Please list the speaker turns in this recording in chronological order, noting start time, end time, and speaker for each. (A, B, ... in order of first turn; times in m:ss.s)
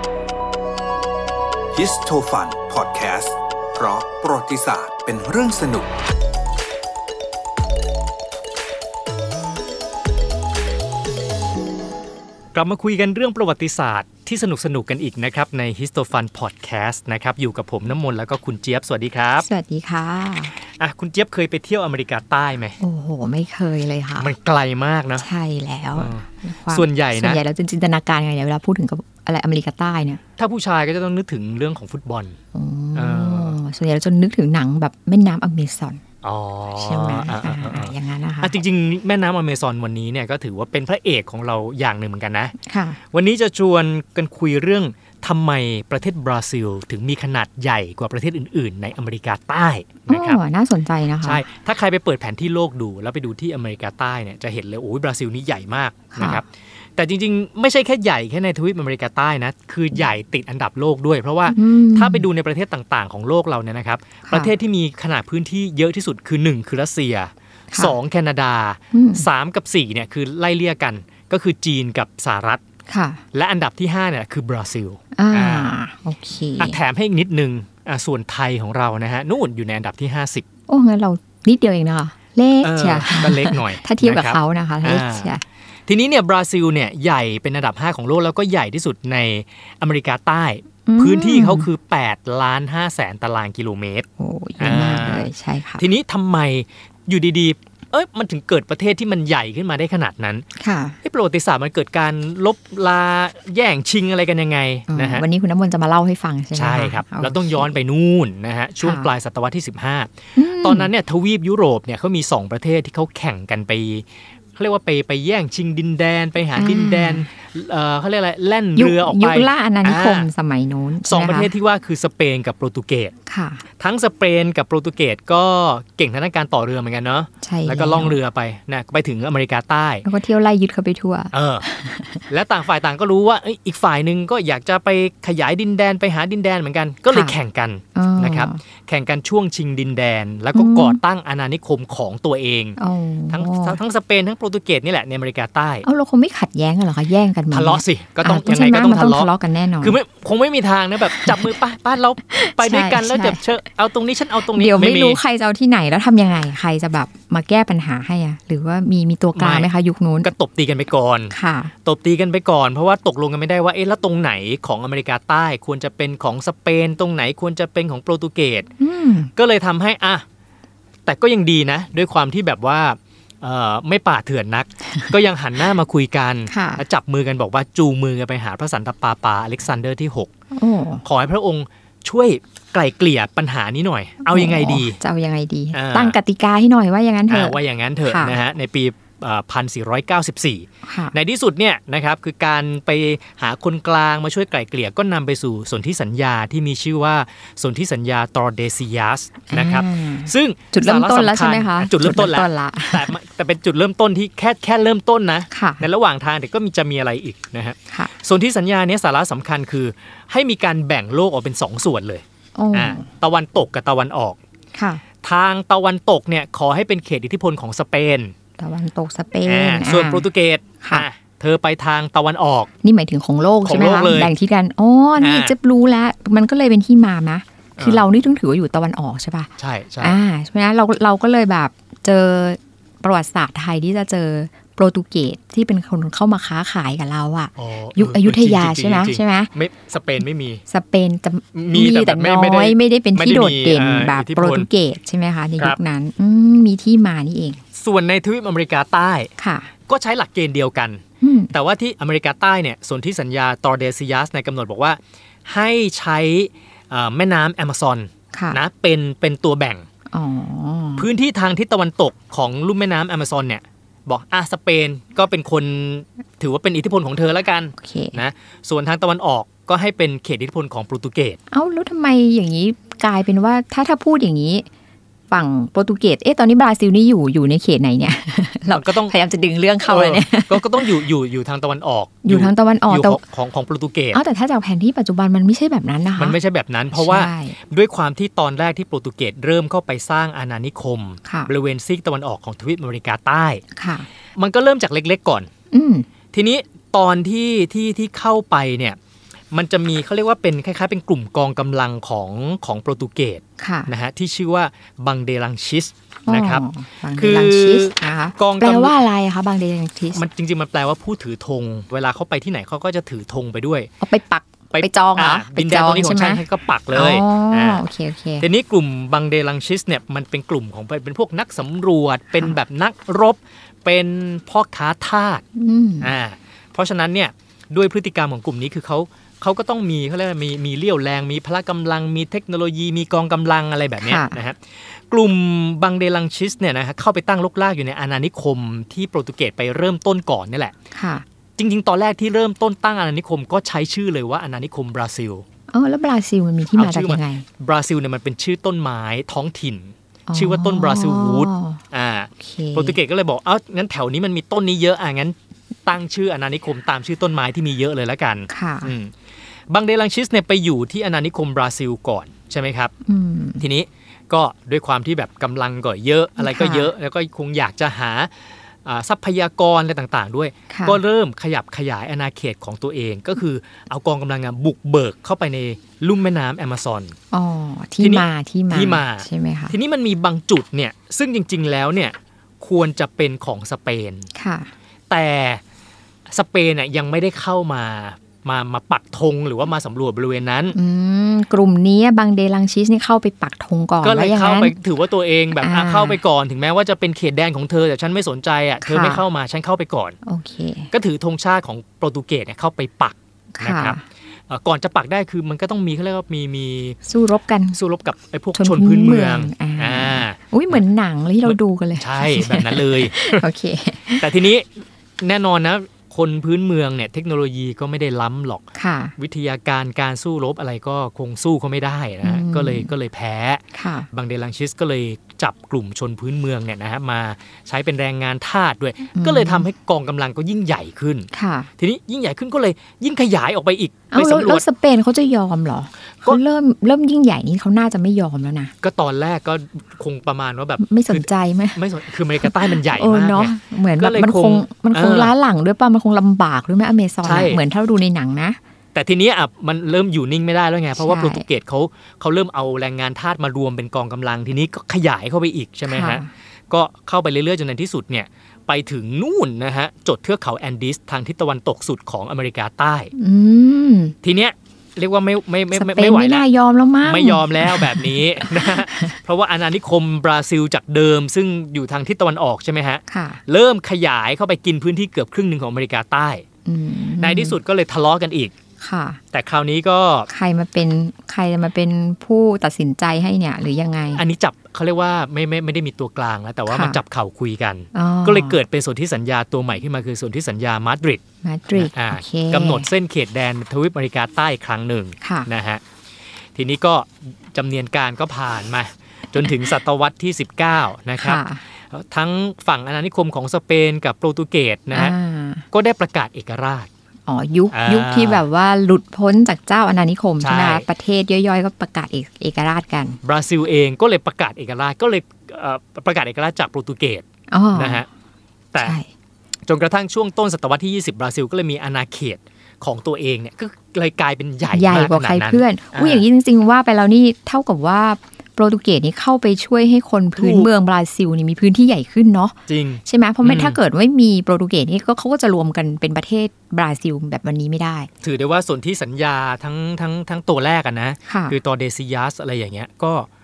0:01.7-0:05.9 A
0:12.5-0:19.5 B
0:19.4-0:20.5 C
0:20.6-0:22.8 B
0:22.8-0:24.3 C
0:24.2-0:25.2 B
0:25.2-0:30.2 C
0:26.0-0:27.4 B
0:30.4-0:32.4 B
0:32.5-0:36.0 C
0:32.9-0:33.6 B
0:36.2-0:50.4 B
0:36.7-0:38.5 C
0:42.6-0:43.0 C
0:50.1-0:51.4 C
0:51.2-1:12.6 B
0:56.1-0:56.4 C
1:01.5-1:02.2 C
1:04.3-1:04.5 C
1:07.7-1:08.0 C
1:08.9-1:09.2 C
1:12.9-1:13.2 C
1:13.3-1:15.8 B
1:15.1-1:16.8 C
1:16.6-1:20.4 B
1:20.7-1:25.4 C
1:22.6-1:34.1 B
1:30.9-1:31.7 C
1:34.2-1:35.8 C
1:34.6-1:40.4 B
1:40.6-1:41.0 C
1:41.0-1:45.2 B
1:44.9-1:47.8 C
1:46.5-2:00.3 B
1:48.8-1:49.1 C
1:50.4-1:50.9 C
1:56.5-1:57.3 C
1:58.8-2:01.5 C
2:01.0-2:03.1 B
2:03.2-2:03.6 C
2:03.8-2:10.0 B
2:07.4-2:08.2 C
2:10.0-2:12.2 C
2:11.3-2:11.6 B
2:12.3-2:22.8 B
2:17.9-2:18.6 C
2:20.5-2:21.0 C
2:22.8-2:23.8 C
2:23.3-2:25.8 B
2:25.8-2:30.0 C
2:27.5-2:29.3 B
2:29.8-2:35.2 B
2:31.0-2:31.5 C
2:32.3-2:33.4 C
2:34.5-2:40.3 C
2:39.4-2:39.7 B
2:40.2-2:48.7 B
2:41.3-2:41.7 C
2:48.8-2:49.3 C
2:49.4-2:50.2 B
2:51.0-3:00.3 B
2:56.5-2:56.8 C
3:00.5-3:01.0 C
3:01.0-3:05.0 B
3:04.2-3:08.4 C
3:05.7-3:06.2 B
3:07.3-3:34.4 B
3:10.8-3:11.1 C
3:19.5-3:23.1 C
3:25.5-3:25.8 C
3:32.6-3:33.0 C
3:34.7-3:35.0 C
3:35.2-3:38.3 B
3:38.6-3:40.2 C
3:39.4-3:42.7 B
3:40.8-3:41.0 C
3:42.8-3:49.5 C
3:43.6-3:44.3 B
3:45.2-3:45.6 B
3:47.8-3:48.0 B
3:49.6-3:50.2 B
3:50.0-3:59.5 C
3:57.6-4:00.6 B
4:00.7-4:07.6 C
4:01.5-4:04.7 B
4:07.8-4:09.3 B
4:09.4-4:09.7 C
4:09.9-4:19.8 B
4:11.2-4:11.5 C
4:18.3-4:18.6 C
4:20.1-4:21.1 C
4:21.0-4:31.4 B
4:27.8-4:28.2 C
4:31.5-4:34.7 C
4:35.3-4:41.0 C
4:38.7-4:39.1 B
4:39.8-4:44.2 B
4:42.2-4:43.2 C
4:44.1-4:46.4 C
4:46.2-4:53.6 B
4:46.9-4:47.6 C
4:51.2-4:51.5 C
4:53.7-4:54.1 C
4:54.4-4:55.5 B
4:55.7-4:56.1 C
4:56.3-4:59.0 B
4:59.5-5:06.6 B
5:03.6-5:03.9 C
5:06.3-5:10.2 C
5:07.2-5:09.0 B
5:10.1-5:13.9 B
5:14.0-5:18.5 C
5:14.7-5:17.8 B
5:18.4-5:25.4 B
5:25.6-5:26.1 C
5:26.0-5:40.7 B
5:34.0-5:34.4 C
5:40.9-5:41.2 C
5:41.6-5:45.4 B
5:45.7-5:47.4 C
5:46.7-5:59.1 B
5:50.3-5:51.8 C
5:52.4-5:53.0 C
5:58.5-5:58.9 C
5:59.7-6:02.9 B
6:03.0-6:03.6 C
6:03.6-6:17.2 B
6:06.4-6:06.9 C
6:10.7-6:11.0 C
6:17.3-6:19.7 C
6:18.0-6:24.3 B
6:24.3-6:24.7 C
6:25.1-6:25.6 B
6:26.3-6:30.8 B
6:30.7-6:34.7 C
6:34.0-6:40.2 B
6:35.6-6:36.2 C
6:38.8-6:39.2 C
6:40.2-6:40.9 C
6:40.9-6:44.0 B
6:43.6-6:44.0 C
6:44.5-6:47.0 B
6:47.1-6:47.8 C
6:47.7-6:50.8 B
6:48.6-6:54.3 C
6:51.4-6:53.4 B
6:54.2-6:58.6 B
6:58.7-6:59.1 C
6:59.2-7:14.6 B
7:02.2-7:02.9 C
7:03.7-7:04.1 C
7:09.2-7:09.6 C
7:11.3-7:11.7 C
7:14.1-7:18.7 C
7:18.8-7:25.3 B
7:20.8-7:21.8 C
7:22.4-7:28.6 C
7:27.2-7:27.6 B
7:28.9-7:43.1 B
7:31.0-7:31.4 C
7:35.8-7:36.3 C
7:43.2-7:44.1 C
7:44.2-7:46.4 B
7:45.7-7:49.2 C
7:47.0-7:56.4 B
7:53.1-7:53.4 C
7:56.6-7:57.6 C
7:57.2-7:58.5 B
7:58.8-7:59.2 C
7:59.3-8:00.3 B
8:00.3-8:04.2 C
8:04.1-8:11.2 B
8:06.7-8:07.0 C
8:07.9-8:08.6 C
8:11.4-8:12.9 C
8:11.7-8:15.8 B
8:15.2-8:15.5 C
8:16.5-8:25.2 B
8:21.2-8:21.6 C
8:24.9-8:25.6 C
8:25.7-8:26.9 B
8:27.3-8:33.2 C
8:27.7-8:28.4 B
8:30.4-8:30.9 B
8:33.2-8:38.1 B
8:37.5-8:38.0 C
8:38.8-8:39.1 C
8:39.7-8:46.2 B
8:44.7-8:58.1 C
8:50.4-8:50.7 B
8:52.7-8:53.8 B
8:58.2-9:03.3 B
9:01.2-9:01.6 C